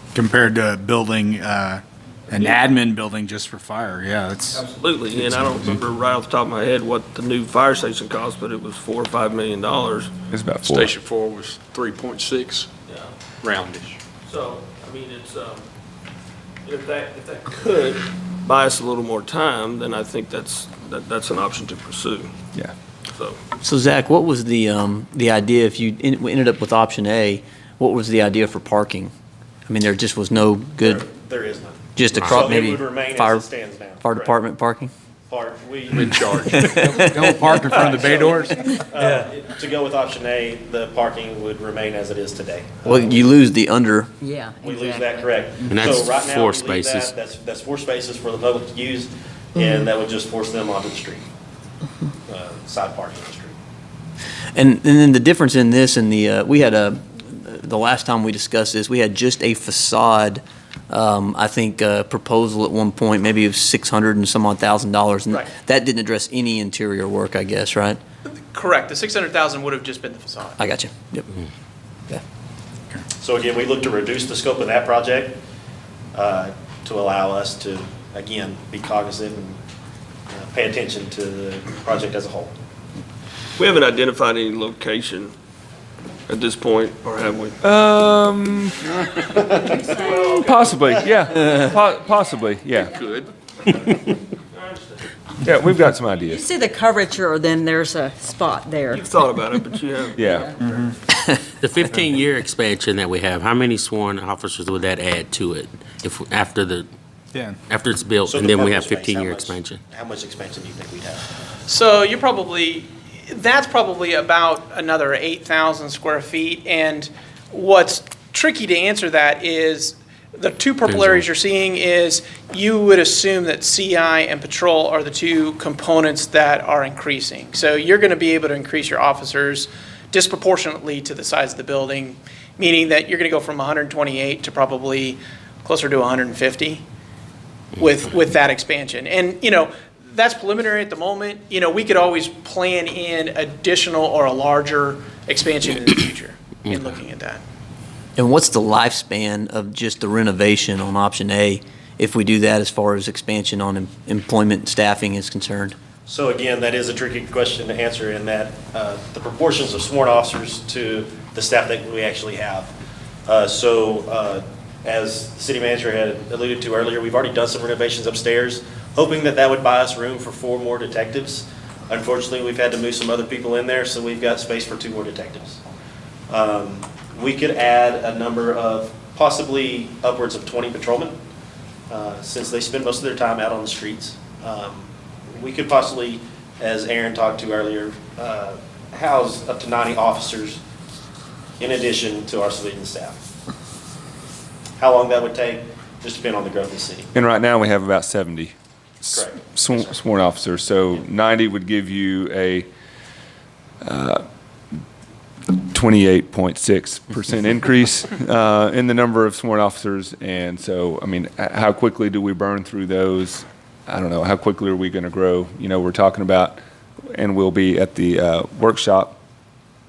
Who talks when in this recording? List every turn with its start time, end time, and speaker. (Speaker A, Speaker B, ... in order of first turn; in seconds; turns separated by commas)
Speaker A: 0.1-4.6, Speaker B: 2.3-2.6, Speaker B: 4.5-10.1, Speaker C: 10.3-10.9, Speaker D: 10.6-12.7, Speaker B: 12.9-13.1, Speaker D: 13.4-14.0, Speaker B: 14.2-15.7, Speaker B: 16.6-22.3, Speaker B: 23.1-23.4, Speaker E: 23.6-29.1, Speaker E: 29.7-31.0, Speaker F: 30.8-34.3, Speaker E: 31.9-34.9, Speaker G: 32.2-32.5, Speaker F: 35.3-43.3, Speaker D: 35.9-39.0, Speaker E: 36.5-37.8, Speaker E: 42.8-44.1, Speaker H: 44.2-45.3, Speaker F: 44.6-51.2, Speaker G: 45.7-47.1, Speaker F: 52.3-53.5, Speaker E: 54.5-68.0, Speaker I: 68.2-70.6, Speaker E: 70.6-71.3, Speaker F: 73.2-75.4, Speaker F: 76.1-79.6, Speaker F: 80.3-82.5, Speaker B: 83.6-85.3, Speaker B: 86.3-87.6, Speaker C: 87.6-89.0, Speaker H: 89.8-90.0, Speaker B: 89.9-91.7, Speaker C: 90.3-93.0, Speaker B: 93.0-95.1, Speaker C: 95.4-96.5, Speaker H: 96.2-99.1, Speaker B: 98.9-100.9, Speaker C: 100.1-100.5, Speaker G: 101.6-106.9, Speaker G: 107.7-109.8, Speaker F: 108.2-111.2, Speaker I: 111.7-136.8, Speaker G: 120.9-121.2, Speaker I: 137.8-147.4, Speaker E: 148.2-155.8, Speaker F: 156.1-162.7, Speaker F: 163.2-175.6, Speaker F: 176.3-181.2, Speaker F: 181.9-190.6, Speaker F: 191.6-193.2, Speaker F: 194.8-197.1, Speaker C: 197.1-202.7, Speaker F: 199.1-199.9, Speaker C: 203.8-204.2, Speaker C: 205.7-216.6, Speaker C: 217.1-219.2